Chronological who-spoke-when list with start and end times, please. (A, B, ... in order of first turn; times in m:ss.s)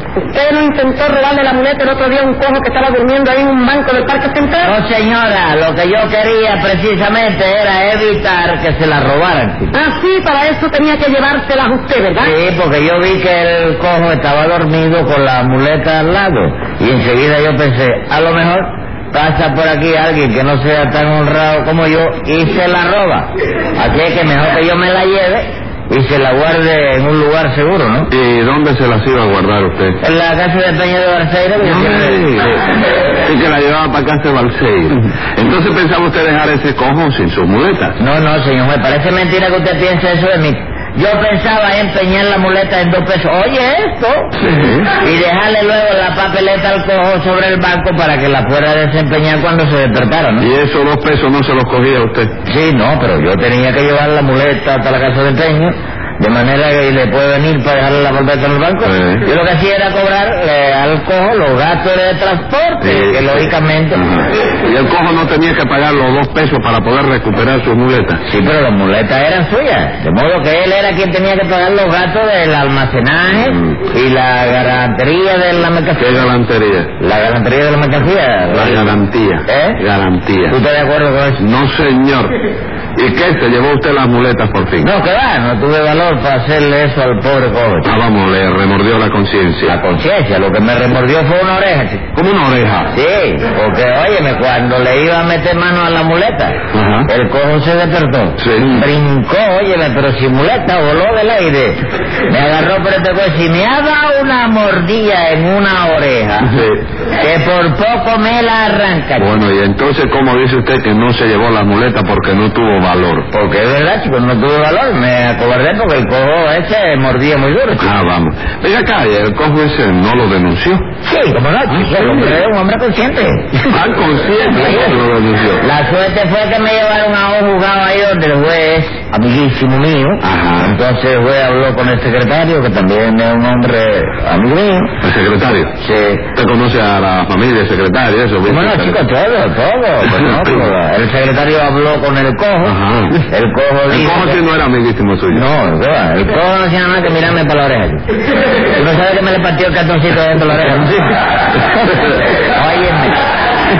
0:00.3-0:04.8 A
0:04.6-0:09.7 B
0:09.7-0:12.3 A
0:12.2-0:28.1 B
0:28.1-0:30.0 C
0:30.0-0:32.4 B
0:31.6-0:38.0 C
0:38.0-0:44.4 B
0:44.4-0:44.9 C
0:45.0-0:50.5 B
0:50.4-0:52.3 C
0:52.5-1:04.0 B
0:58.8-0:59.3 C
1:02.8-1:08.2 C
1:08.2-1:16.2 B
1:16.0-1:16.9 C
1:17.0-1:19.8 B
1:18.5-1:20.5 C
1:20.5-1:21.4 B
1:21.4-1:22.4 C
1:23.0-1:24.9 C
1:24.8-1:27.9 B
1:27.8-1:29.8 C
1:29.6-1:32.0 B
1:32.1-1:32.9 C
1:32.9-1:46.5 B
1:36.7-1:37.1 C
1:38.4-1:38.8 C
1:46.4-1:46.8 C
1:47.2-1:49.3 B
1:49.2-1:53.3 C
1:53.3-1:57.8 B
1:57.8-2:00.9 C
2:01.0-2:03.6 B
2:01.7-2:02.4 C
2:03.6-2:05.6 C
2:04.6-2:05.0 B
2:05.6-2:14.9 B
2:10.2-2:10.7 C
2:15.0-2:15.7 C
2:15.8-2:16.2 B
2:16.3-2:19.0 C
2:18.4-2:22.8 B
2:20.0-2:20.6 C
2:22.6-2:23.2 C
2:23.3-2:24.4 B
2:23.9-2:25.4 C
2:25.3-2:28.0 B
2:28.7-2:31.2 B
2:32.0-2:33.2 B